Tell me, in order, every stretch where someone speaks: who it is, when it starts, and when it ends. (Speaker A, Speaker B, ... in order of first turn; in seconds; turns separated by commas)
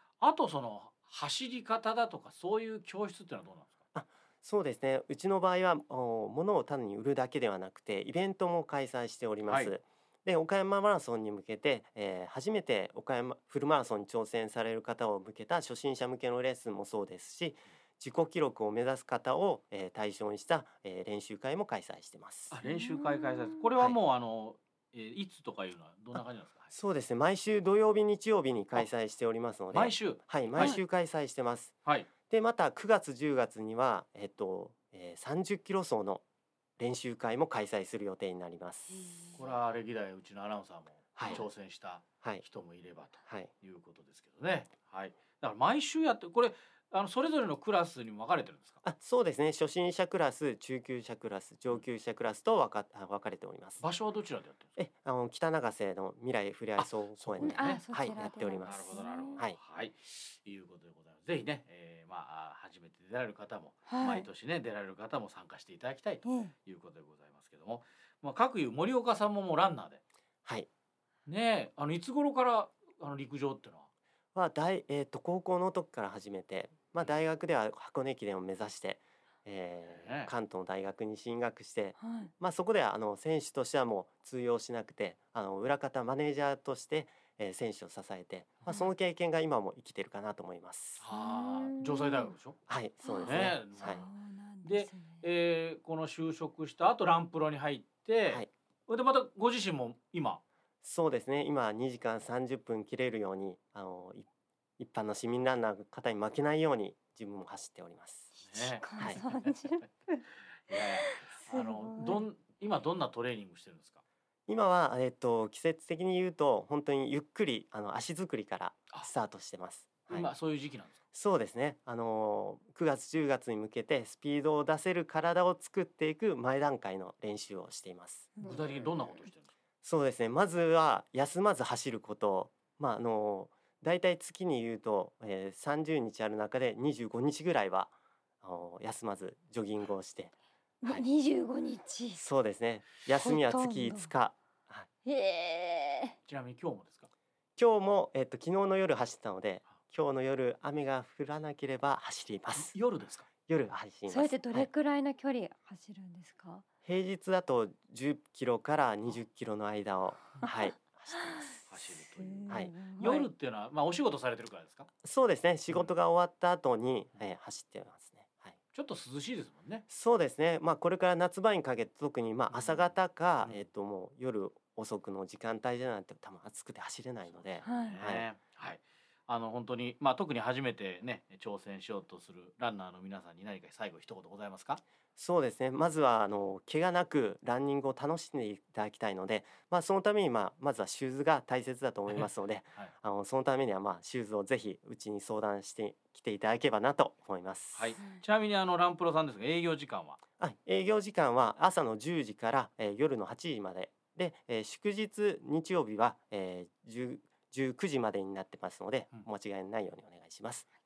Speaker A: 0.2-3.8, Speaker B: 3.9-22.5, Speaker A: 9.5-9.7, Speaker A: 22.5-26.7, Speaker B: 26.1-31.8, Speaker A: 29.7-30.8, Speaker B: 32.3-36.2, Speaker B: 36.8-39.3, Speaker A: 39.4-48.8, Speaker B: 41.2-41.5, Speaker B: 48.8-53.8, Speaker A: 53.8-54.8, Speaker B: 54.8-59.6, Speaker A: 56.8-70.0, Speaker C: 57.4-59.4, Speaker C: 63.9-64.3, Speaker C: 66.2-66.5, Speaker A: 71.3-73.9, Speaker B: 74.3-91.0, Speaker A: 79.9-80.3, Speaker C: 82.0-82.3, Speaker A: 91.0-92.6, Speaker C: 91.1-92.3, Speaker B: 92.7-94.0, Speaker C: 93.0-95.2, Speaker A: 93.2-94.0, Speaker A: 94.6-100.4, Speaker B: 100.8-104.3, Speaker B: 104.8-108.3, Speaker A: 108.4-109.9, Speaker C: 108.5-110.2, Speaker A: 110.7-114.0, Speaker C: 110.8-112.2, Speaker B: 114.5-120.3, Speaker A: 120.1-121.0, Speaker B: 121.1-128.3, Speaker C: 128.4-128.7, Speaker A: 128.4-129.5, Speaker B: 129.8-140.3, Speaker C: 140.8-142.2, Speaker B: 142.2-144.9, Speaker C: 143.2-144.1, Speaker C: 145.1-146.2, Speaker A: 146.3-147.1, Speaker B: 147.6-152.7, Speaker A: 152.6-153.3, Speaker B: 153.5-154.7, Speaker C: 154.1-156.6, Speaker B: 156.9-161.7, Speaker A: 161.7-164.9, Speaker C: 162.2-163.3, Speaker B: 162.5-162.8, Speaker B: 165.0-168.6, Speaker A: 168.7-169.8, Speaker B: 169.9-178.3, Speaker A: 172.5-173.7, Speaker A: 177.6-184.8, Speaker C: 177.7-177.9, Speaker B: 185.2-198.0, Speaker A: 197.8-200.2, Speaker B: 200.4-210.7